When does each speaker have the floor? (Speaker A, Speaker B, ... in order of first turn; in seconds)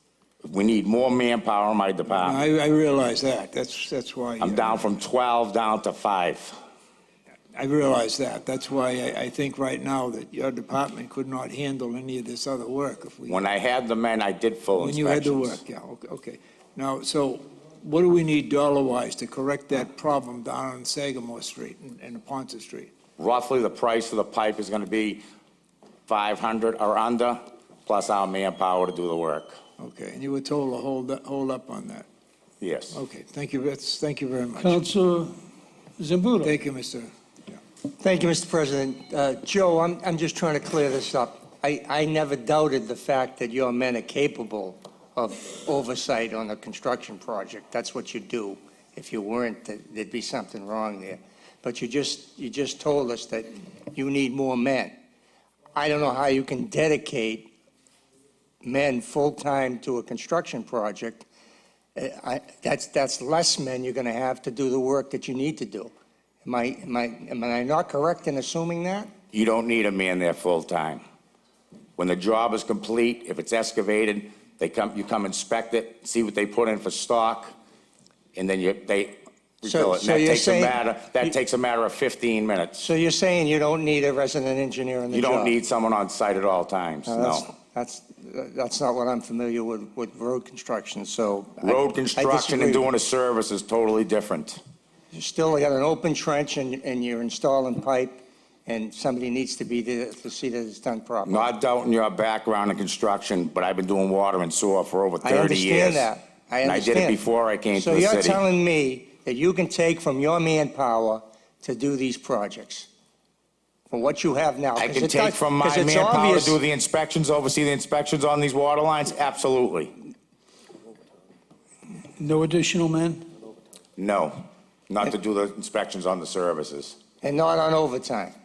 Speaker A: 0.4-2.4, 4.4-6.6, 13.3-15.6, 23.2-25.2, 26.1-29.6, 32.6-33.0, 69.3-71.0, 72.0-77.5, 78.3-82.8, 85.1-87.5, 91.6-94.6, 101.2-106.1, 106.6-108.4, 114.8-119.9, 124.0-127.0
Speaker B: 2.1-4.8, 7.5-13.4, 14.8-22.9, 29.8-32.1, 32.9-34.8, 36.4-37.1
Speaker C: 34.6-35.4, 36.0-36.6, 122.2-123.3
Speaker D: 38.0-54.9, 55.7-57.5, 58.6-61.3, 62.0-65.9, 66.4-69.1, 79.7-81.3, 82.8-85.5, 87.1-92.9, 95.1-101.5, 105.2-107.2, 107.7-112.9, 113.9-116.6, 127.2-128.3